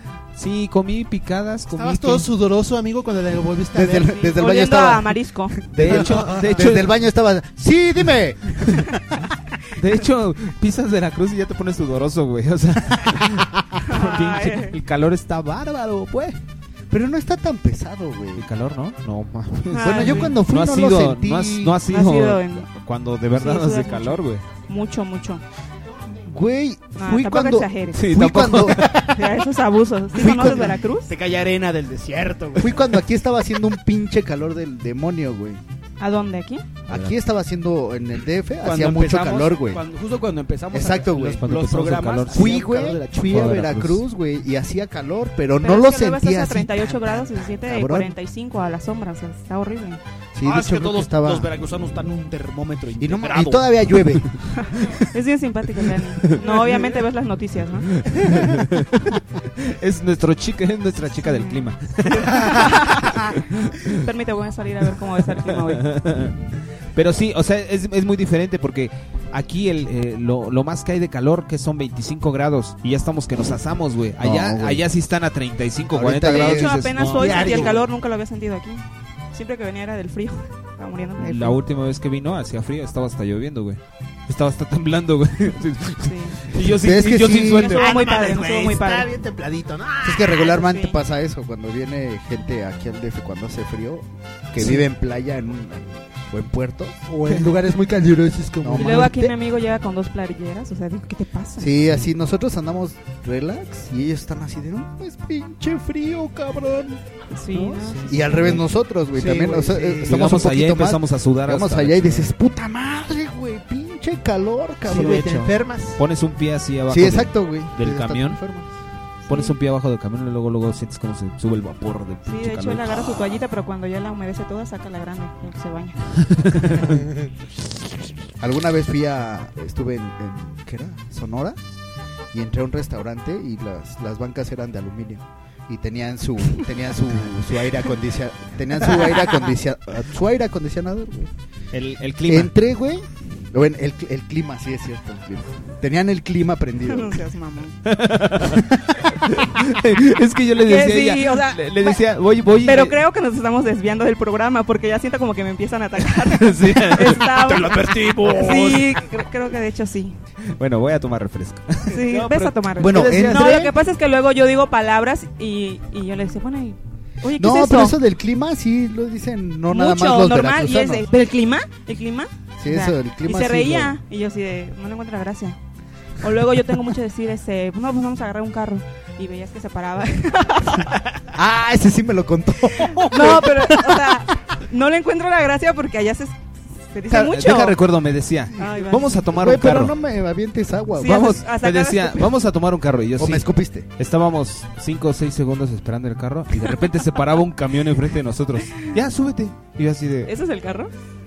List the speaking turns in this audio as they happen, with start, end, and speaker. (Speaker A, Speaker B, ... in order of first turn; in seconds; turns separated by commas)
Speaker A: 0.3-2.3, Speaker B: 1.7-4.2, Speaker C: 3.7-5.1, Speaker D: 4.1-5.6, Speaker A: 5.7-7.0, Speaker C: 5.7-8.8, Speaker B: 5.9-6.5, Speaker A: 9.8-16.4, Speaker D: 13.9-14.8, Speaker C: 16.9-18.5, Speaker A: 18.4-24.5, Speaker D: 19.7-20.4, Speaker C: 19.8-21.8, Speaker D: 21.9-22.7, Speaker D: 23.4-25.4, Speaker C: 26.2-28.9, Speaker D: 27.0-28.1, Speaker A: 27.9-29.1, Speaker D: 29.1-31.1, Speaker C: 30.1-30.8, Speaker E: 31.1-32.8, Speaker C: 32.6-35.6, Speaker D: 36.0-36.6, Speaker C: 36.9-39.8, Speaker A: 36.9-37.2, Speaker E: 38.6-43.6, Speaker C: 40.7-41.5, Speaker A: 41.4-44.0, Speaker C: 42.3-48.1, Speaker D: 45.6-50.0, Speaker C: 50.3-51.5, Speaker E: 50.4-53.7, Speaker C: 53.0-54.3, Speaker D: 54.6-57.9, Speaker A: 56.5-56.8, Speaker A: 58.0-63.9, Speaker D: 61.2-61.7, Speaker D: 62.4-63.3, Speaker D: 64.0-65.9, Speaker A: 65.3-77.8, Speaker C: 74.2-74.8, Speaker C: 75.9-77.6, Speaker D: 76.2-81.6, Speaker B: 77.2-77.7, Speaker A: 81.2-87.9, Speaker D: 86.0-86.4, Speaker C: 86.6-87.8, Speaker D: 87.4-89.2, Speaker B: 87.8-90.3, Speaker C: 90.0-97.0, Speaker D: 90.5-91.0, Speaker A: 94.5-94.8, Speaker B: 97.1-99.1, Speaker C: 98.6-99.3, Speaker D: 98.8-101.8, Speaker C: 101.6-107.0, Speaker D: 107.3-108.2, Speaker A: 107.8-108.6, Speaker C: 108.1-115.3, Speaker B: 109.3-110.1, Speaker A: 110.0-112.3, Speaker B: 114.9-116.0, Speaker A: 114.9-118.4, Speaker C: 116.9-118.7, Speaker A: 119.3-123.2, Speaker D: 119.3-119.5, Speaker D: 122.3-126.1, Speaker A: 126.4-126.9, Speaker C: 128.4-131.6, Speaker C: 132.3-141.3, Speaker A: 141.7-142.5, Speaker C: 142.3-147.2, Speaker D: 146.9-147.8, Speaker A: 147.9-148.7, Speaker A: 149.3-153.0, Speaker D: 150.6-152.0, Speaker D: 152.6-160.2, Speaker A: 156.2-157.4, Speaker E: 157.4-159.0, Speaker A: 160.5-162.0, Speaker D: 161.9-168.0, Speaker E: 162.1-163.6, Speaker C: 162.8-163.7, Speaker C: 167.4-171.1, Speaker D: 169.7-175.6, Speaker C: 172.6-174.0, Speaker D: 176.2-181.0, Speaker C: 181.3-183.9, Speaker D: 183.0-187.8, Speaker A: 187.1-189.9, Speaker D: 188.6-189.5, Speaker C: 189.3-191.3, Speaker D: 191.0-192.3, Speaker A: 191.0-193.5, Speaker C: 193.2-193.9, Speaker A: 194.0-200.3, Speaker D: 200.3-200.9